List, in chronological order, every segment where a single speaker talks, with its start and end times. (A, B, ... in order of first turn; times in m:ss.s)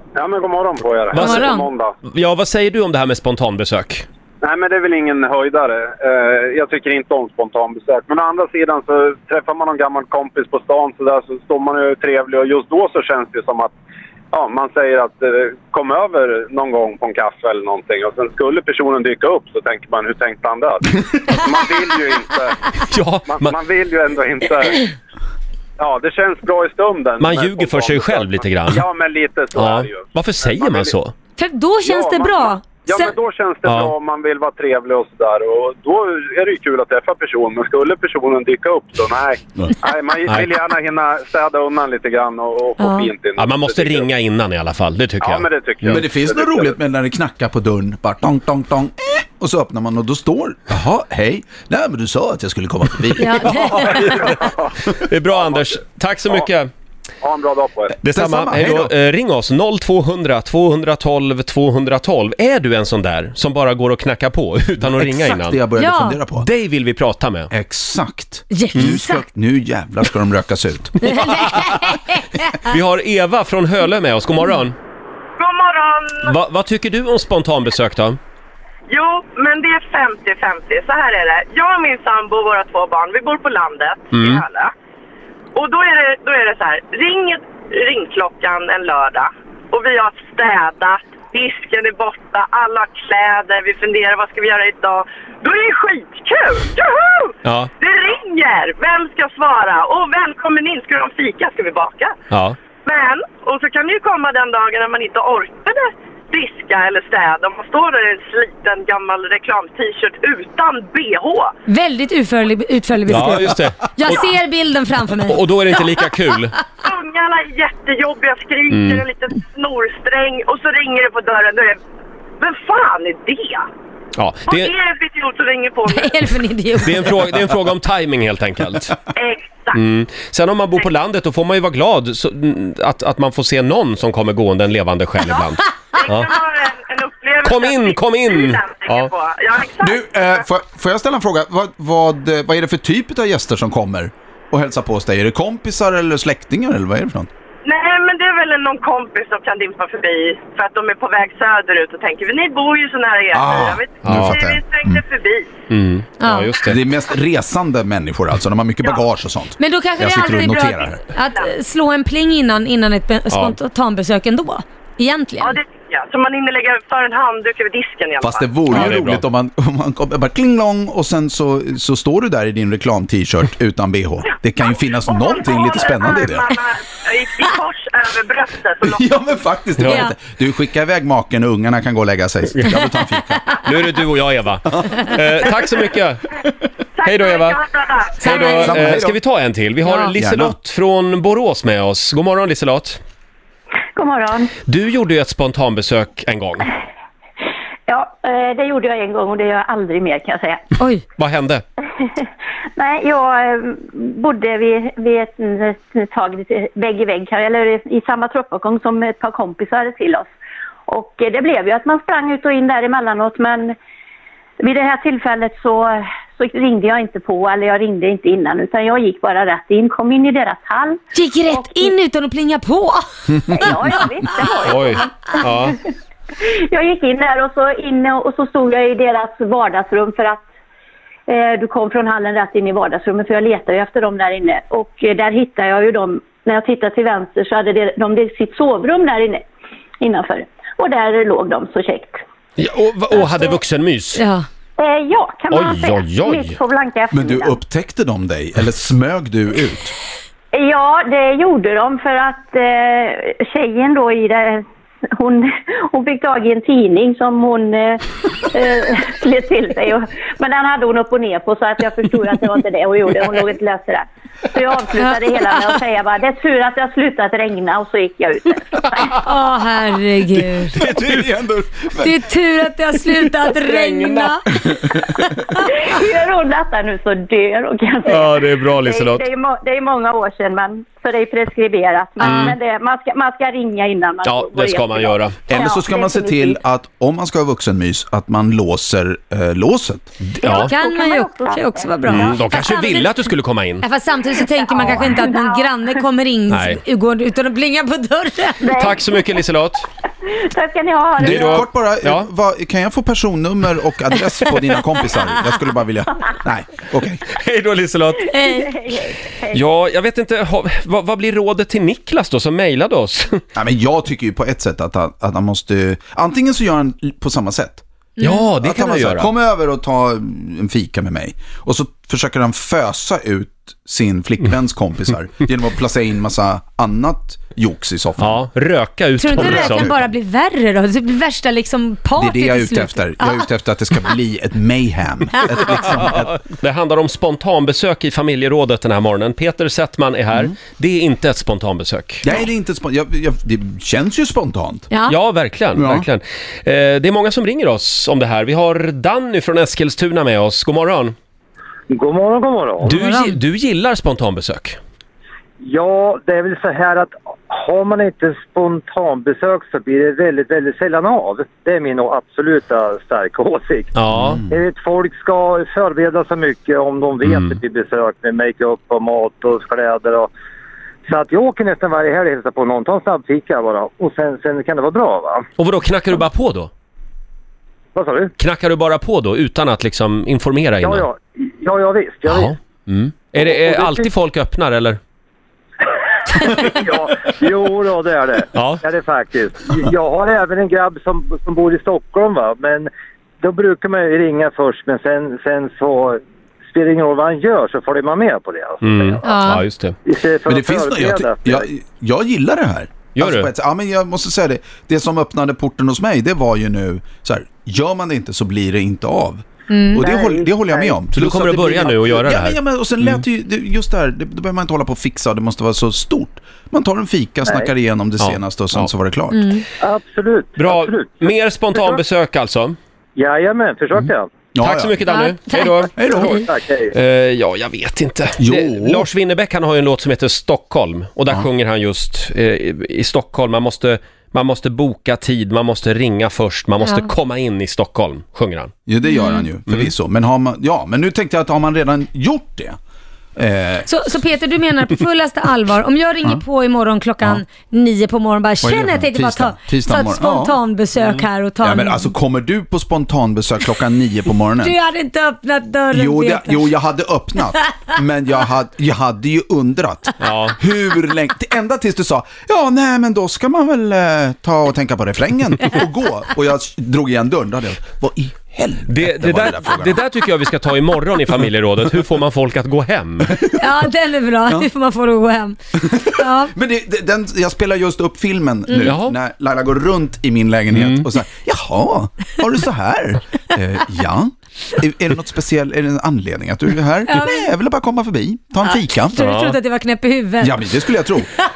0:00.2-0:01.9 A
0:01.1-0:01.5 B
0:01.2-0:01.7 C
0:02.0-0:04.1 B
0:04.4-0:13.8 A
0:14.3-0:22.6 A
0:22.8-0:23.5 B
0:23.3-0:24.8 A
0:25.8-0:30.9 A
0:27.2-0:28.8 B
0:29.6-0:31.2 B
0:31.4-0:33.2 C
0:31.8-0:44.1 A
0:33.7-0:33.9 B
0:42.8-0:43.1 C
0:43.4-0:46.0 B
0:45.2-0:46.8 A
0:45.8-0:53.8 D
0:53.2-0:54.2 C
0:53.4-0:56.7 B
0:54.0-0:54.8 A
0:55.3-0:56.5 A
0:57.2-0:58.0 A
0:58.0-1:05.6 B
0:58.0-0:58.9 D
1:04.8-1:06.5 D
1:05.8-1:06.2 C
1:06.3-1:07.5 B
1:07.5-1:11.2 D
1:08.5-1:09.3 C
1:11.0-1:12.7 C
1:11.2-1:11.9 B
1:12.6-1:14.8 B
1:15.4-1:16.3 E
1:16.3-1:18.2 B
1:18.9-1:24.7 E
1:24.1-1:24.4 B
1:25.6-1:42.2 E
1:37.4-1:37.7 B
1:42.3-1:42.6 B
1:42.8-1:51.5 E
1:51.7-1:56.3 C
1:53.1-1:54.3 B
1:55.2-1:56.6 B
1:56.8-2:01.8 E
1:58.7-1:59.0 B
2:02.4-2:03.6 E
2:04.2-2:04.7 B
2:04.5-2:06.4 E
2:05.9-2:07.3 C
2:06.8-2:09.0 B
2:09.2-2:09.8 E
2:09.7-2:16.3 B
2:15.2-2:20.4 E
2:17.4-2:19.1 B
2:19.8-2:27.3 D
2:27.6-2:35.5 E
2:33.3-2:35.0 D
2:34.0-2:34.4 B
2:35.7-2:36.8 B
2:36.2-2:36.6 C
2:36.6-2:41.0 D
2:39.6-2:45.6 C
2:41.1-2:41.5 E
2:43.3-2:43.6 B
2:45.4-2:48.8 E
2:48.2-2:56.5 D
2:48.7-2:49.2 B
2:54.8-2:59.1 E
2:58.8-3:03.9 D
2:59.8-3:00.1 B
2:59.8-3:00.1 C
3:02.6-3:02.8 B
3:03.5-3:06.2 B
3:04.7-3:05.1 D
3:05.4-3:05.7 E
3:07.0-3:08.5 E
3:07.1-3:07.6 B
3:08.2-3:13.0 B
3:08.2-3:08.8 C
3:08.4-3:09.2 D
3:09.8-3:10.1 C
3:10.1-3:10.6 D
3:14.0-3:14.5 F
3:14.7-3:16.7 B
3:17.9-3:20.7 F
3:20.8-3:21.0 C
3:21.2-3:21.6 B
3:22.8-3:30.3 F
3:30.9-3:33.8 F
3:34.6-3:41.9 F
3:41.1-3:44.7 C
3:43.4-3:45.8 F
3:44.6-3:45.8 B
3:46.4-3:50.4 F
3:51.3-3:59.4 F
4:00.0-4:02.2 F
4:02.6-4:04.2 B
4:03.2-4:03.6 F
4:04.2-4:04.5 C
4:04.8-4:07.6 F
4:05.5-4:06.6 B
4:07.1-4:09.9 D
4:10.5-4:14.6 F
4:15.2-4:29.2 F
4:25.0-4:25.8 C
4:29.2-4:30.8 C
4:30.8-4:31.3 B
4:30.8-4:32.2 D
4:32.0-4:35.5 C
4:33.6-4:34.3 B
4:34.7-4:35.2 D
4:35.8-4:46.6 F
4:38.1-4:39.3 B
4:42.2-4:42.5 C
4:42.2-4:42.6 B
4:44.2-4:45.4 B
4:45.5-4:50.2 D
4:50.4-4:50.7 B
4:50.4-4:52.3 F
4:50.4-4:58.8 C
4:52.1-4:53.9 B
4:54.4-4:56.0 F
4:54.8-4:55.2 B
4:56.5-4:56.8 B
4:58.6-4:59.2 F
4:58.8-4:59.9 B
5:00.2-5:01.6 F
5:01.2-5:07.2 D
5:01.2-5:02.3 B
5:07.3-5:08.3 B
5:08.3-5:08.8 C
5:08.4-5:09.6 F
5:09.5-5:13.4 B
5:13.6-5:17.8 D
5:18.2-5:18.5 C
5:18.2-5:19.3 B
5:18.6-5:28.4 D
5:28.2-5:29.9 B
5:29.2-5:33.5 C
5:29.3-5:30.0 D
5:32.2-5:36.4 D
5:35.3-5:35.6 C
5:36.0-5:42.3 B
5:42.2-5:44.9 D
5:44.9-5:45.2 C
5:45.1-5:51.2 B
5:45.8-5:46.1 D
5:51.9-5:53.0 G
5:52.8-5:54.8 B
5:53.0-5:53.4 C
5:55.6-6:04.0 G
6:04.0-6:04.4 B
6:04.1-6:04.6 D
6:04.5-6:10.3 G
6:07.2-6:07.6 B
6:11.1-6:15.4 G
6:15.6-6:16.7 B
6:18.0-6:18.3 G
6:18.4-6:21.1 B
6:20.8-6:22.5 G
6:22.3-6:25.0 B
6:23.4-6:24.0 G
6:26.4-6:32.9 G
6:28.5-6:28.8 B
6:33.4-6:39.5 G
6:38.8-6:40.0 B
6:39.2-6:39.6 C
6:40.0-6:41.7 G
6:40.5-6:59.5 D
6:43.2-6:43.5 B
6:49.7-6:50.1 C
6:50.0-6:51.0 G
6:51.1-6:53.2 B
6:58.2-6:58.9 B
6:59.3-6:59.7 C
6:59.8-7:02.0 G
7:00.6-7:02.8 B
7:03.2-7:04.3 G
7:04.6-7:05.0 D
7:04.6-7:18.7 B
7:05.0-7:06.4 C
7:06.0-7:06.4 D
7:06.1-7:06.9 G
7:08.4-7:09.1 D
7:16.8-7:17.1 C
7:18.9-7:22.8 D
7:19.0-7:19.5 C
7:23.4-7:24.0 D
7:23.9-7:32.1 C
7:28.6-7:30.6 D
7:31.6-7:34.8 D
7:34.6-7:36.7 C
7:35.9-7:50.0 D
7:37.4-7:37.8 C
7:40.2-7:40.6 B
7:48.9-7:53.3 B
7:53.3-7:53.8 D
7:53.6-7:56.5 C
7:55.8-8:09.3 D
7:58.8-7:59.2 B
8:00.7-8:01.1 B
8:07.1-8:07.4 C
8:08.6-8:10.6 C
8:09.2-8:09.6 B
8:10.4-8:11.3 D